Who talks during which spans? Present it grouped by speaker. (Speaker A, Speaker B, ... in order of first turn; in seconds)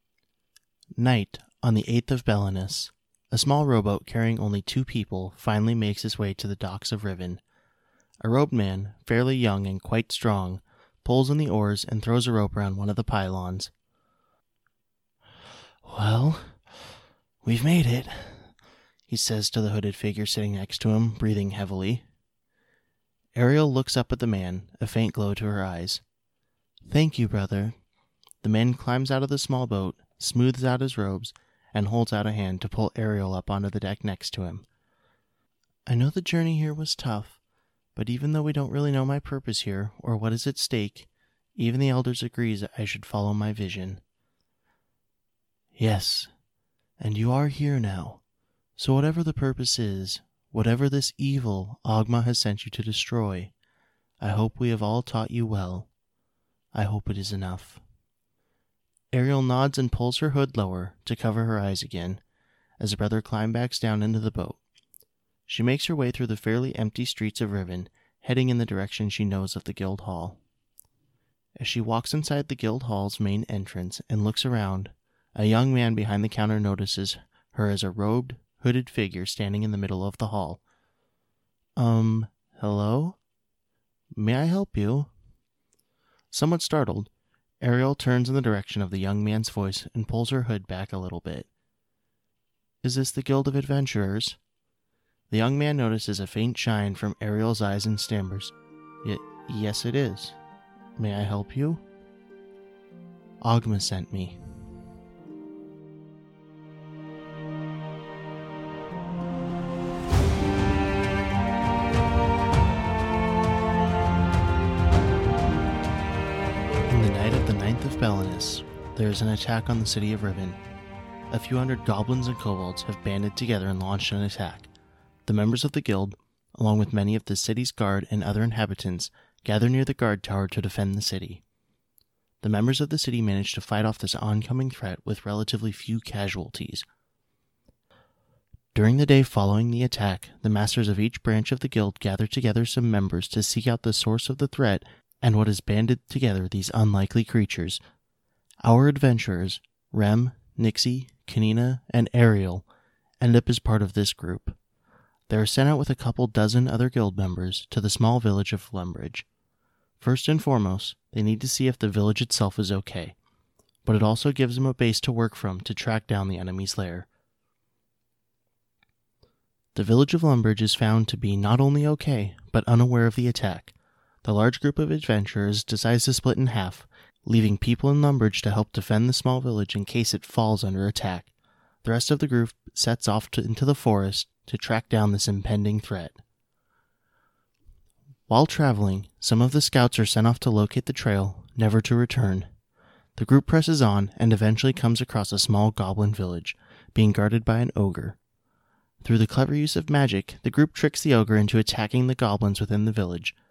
Speaker A: 1.0-7.4, 8.2-13.7, 15.8-16.5, 17.4-18.4, 19.1-22.0, 23.4-26.0, 26.9-27.8, 28.4-34.6, 35.9-37.4, 38.0-44.0, 45.8-46.3, 47.0-48.2, 48.8-53.5, 54.2-55.9, 56.7-57.8, 59.1-62.2, 62.8-64.6, 65.5-70.4, 71.6-80.6, 81.8-83.2, 84.2-85.1, 86.3-87.1, 87.6-91.5, 92.8-94.4, 95.3-100.3, 101.0-101.8, 103.4-104.4, 116.9-120.6, 121.3-124.7, 125.3-131.4, 132.4-136.8, 138.7-147.8, 148.6-152.7, 153.2-154.6, 155.3-159.2, 160.0-163.2, 163.8-167.1, 169.8-173.7, 174.2-181.3, 181.8-186.2, 188.3-192.5, 193.2-198.2, 199.0-203.3